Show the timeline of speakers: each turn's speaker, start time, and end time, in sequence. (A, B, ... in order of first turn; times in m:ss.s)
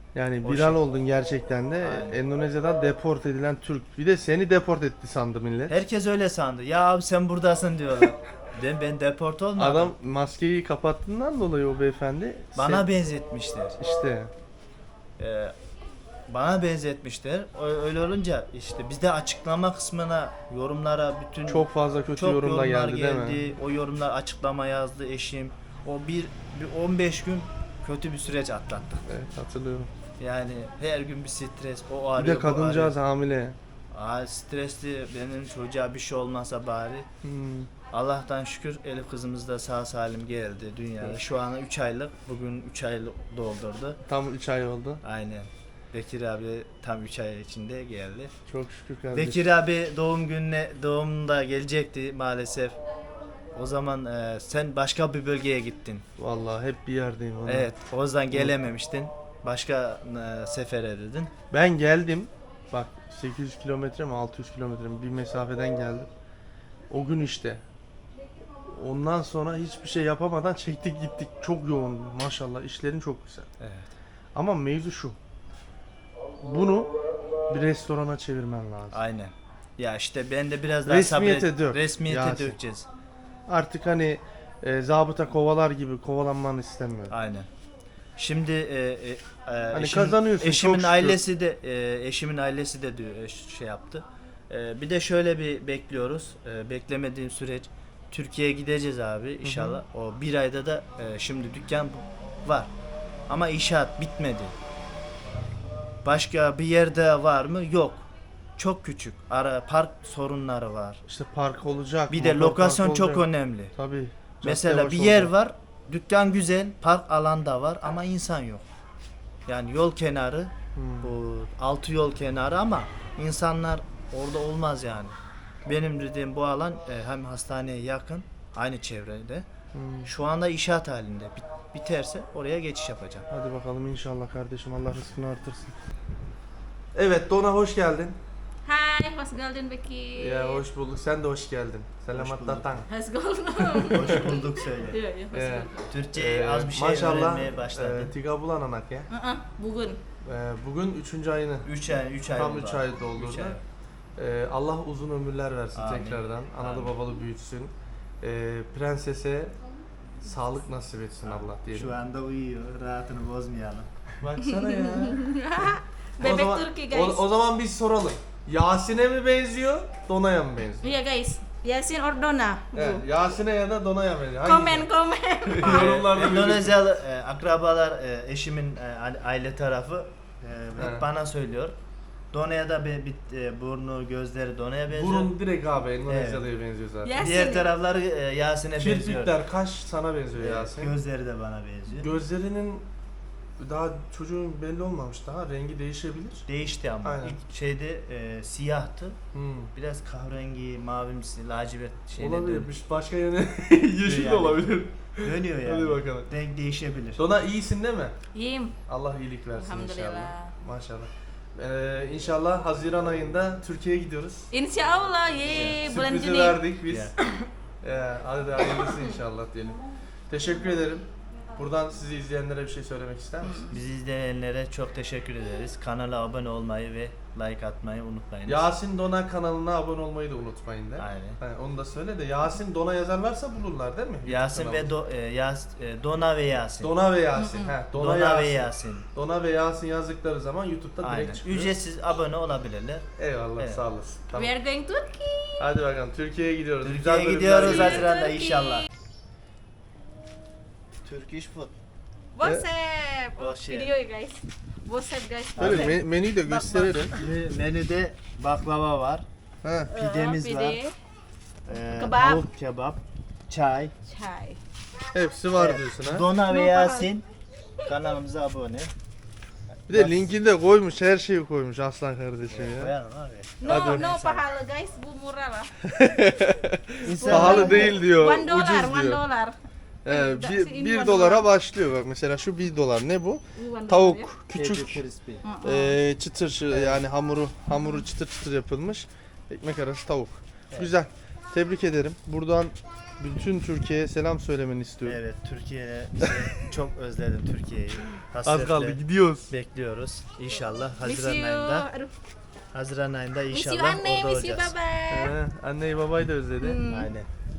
0:00.1-0:05.8 A
0:00.4-0:00.8 B
0:01.8-0:02.2 B
0:05.7-0:10.0 B
0:09.6-0:12.9 A
0:12.6-0:13.8 B
0:13.8-0:14.3 A
0:15.2-0:15.6 B
0:16.3-0:29.1 B
0:21.5-0:23.4 A
0:29.1-0:29.9 A
0:30.2-0:33.0 B
0:32.2-0:33.6 A
0:33.9-0:37.1 B
0:37.2-0:37.7 A
0:37.9-0:44.0 B
0:44.1-0:45.0 A
0:45.0-0:48.3 B
0:48.5-0:49.4 A
0:49.1-0:52.8 B
0:53.5-0:56.1 B
0:56.2-0:57.7 A
0:57.5-1:01.3 B
1:01.5-1:06.1 A
1:06.9-1:07.6 A
1:08.6-1:13.5 A
1:13.6-1:13.9 B
1:14.4-1:15.2 A
1:16.4-1:19.0 A
1:18.9-1:22.9 B
1:20.9-1:22.6 A
1:23.5-1:27.1 A
1:27.1-1:27.5 B
1:28.2-1:42.7 B
1:29.7-1:31.2 A
1:39.4-1:39.8 A
1:43.3-1:44.6 B
1:46.0-1:51.0 B
1:51.1-1:55.3 A
1:52.1-1:53.7 B
1:54.4-1:58.6 B
1:59.5-2:09.5 B
2:00.8-2:01.1 A
2:09.7-2:10.1 A
2:10.0-2:13.3 B
2:13.3-2:15.8 A
2:17.0-2:18.2 A
2:18.6-2:20.6 C
2:20.2-2:22.9 A
2:22.1-2:22.8 B
2:22.9-2:25.9 C
2:23.6-2:24.3 A
2:23.9-2:25.0 B
2:25.3-2:29.1 A
2:25.8-2:28.1 B
2:29.1-2:30.0 C
2:30.2-2:31.7 A
2:31.6-2:33.6 B
2:32.3-2:33.6 A
2:34.2-2:39.6 A
2:35.7-2:37.0 B
2:40.2-2:42.0 A
2:41.2-2:45.2 B
2:44.2-2:45.6 A
2:44.6-2:47.2 C
2:46.2-2:50.9 A
2:50.8-2:53.0 C
2:52.7-2:54.9 A
2:54.4-2:56.0 C
2:55.5-2:56.8 A
2:55.6-3:01.8 B
3:00.8-3:01.0 A
3:02.3-3:05.3 B
3:04.9-3:07.2 A
3:06.0-3:06.5 B
3:07.0-3:07.7 C
3:07.1-3:09.4 B
3:08.8-3:10.9 A
3:10.4-3:12.1 B
3:12.0-3:12.9 A
3:13.6-3:16.5 A
3:16.5-3:19.2 B
3:17.0-3:17.4 A
3:19.3-3:19.7 A
3:19.7-3:22.7 B
3:22.2-3:26.3 A
3:24.0-3:27.2 B
3:27.2-3:28.2 A
3:28.3-3:28.8 C
3:28.9-3:34.5 A
3:29.6-3:30.5 C
3:34.5-3:37.5 C
3:35.5-3:37.1 A
3:35.5-3:35.8 B
3:36.9-3:37.1 B
3:37.8-3:43.7 A
3:43.7-3:48.7 B
3:48.5-3:54.9 A
3:51.0-3:51.4 B
3:54.2-3:56.9 B
3:56.8-4:01.8 A
3:57.4-3:57.7 C
3:57.9-3:59.1 B
4:01.0-4:03.8 B
4:03.2-4:04.5 A
4:04.3-4:05.6 C
4:05.6-4:08.1 A
4:06.8-4:08.9 B
4:07.8-4:08.9 C
4:11.0-4:11.7 B
4:12.4-4:17.2 C
4:13.4-4:13.9 B
4:15.6-4:16.0 B
4:15.6-4:17.2 A
4:17.1-4:19.3 B
4:19.6-4:19.9 A
4:19.9-4:20.9 C
4:19.9-4:20.8 B
4:21.6-4:24.0 B
4:21.8-4:22.4 C
4:24.0-4:24.6 C
4:25.1-4:26.3 A
4:25.5-4:27.3 B
4:26.5-4:27.1 C
4:27.8-4:28.9 B
4:29.9-4:30.2 B
4:29.9-4:32.9 A
4:32.5-4:34.4 B
4:33.6-4:35.7 C
4:33.6-4:34.1 A
4:35.8-4:39.2 A
4:37.0-4:38.0 B
4:37.0-4:39.6 C
4:40.0-4:45.0 A
4:40.1-4:41.5 C
4:43.6-4:44.3 C
4:44.5-4:45.4 B
4:45.4-4:46.0 C
4:45.6-4:55.2 A
4:46.7-4:47.0 B
4:55.0-4:59.0 B
4:56.2-4:56.6 A
4:58.4-4:59.5 A
4:59.5-5:01.9 B
5:01.0-5:02.1 C
5:02.7-5:04.8 B
5:03.5-5:05.3 C
5:05.1-5:06.8 A
5:06.6-5:07.1 C
5:06.9-5:07.3 B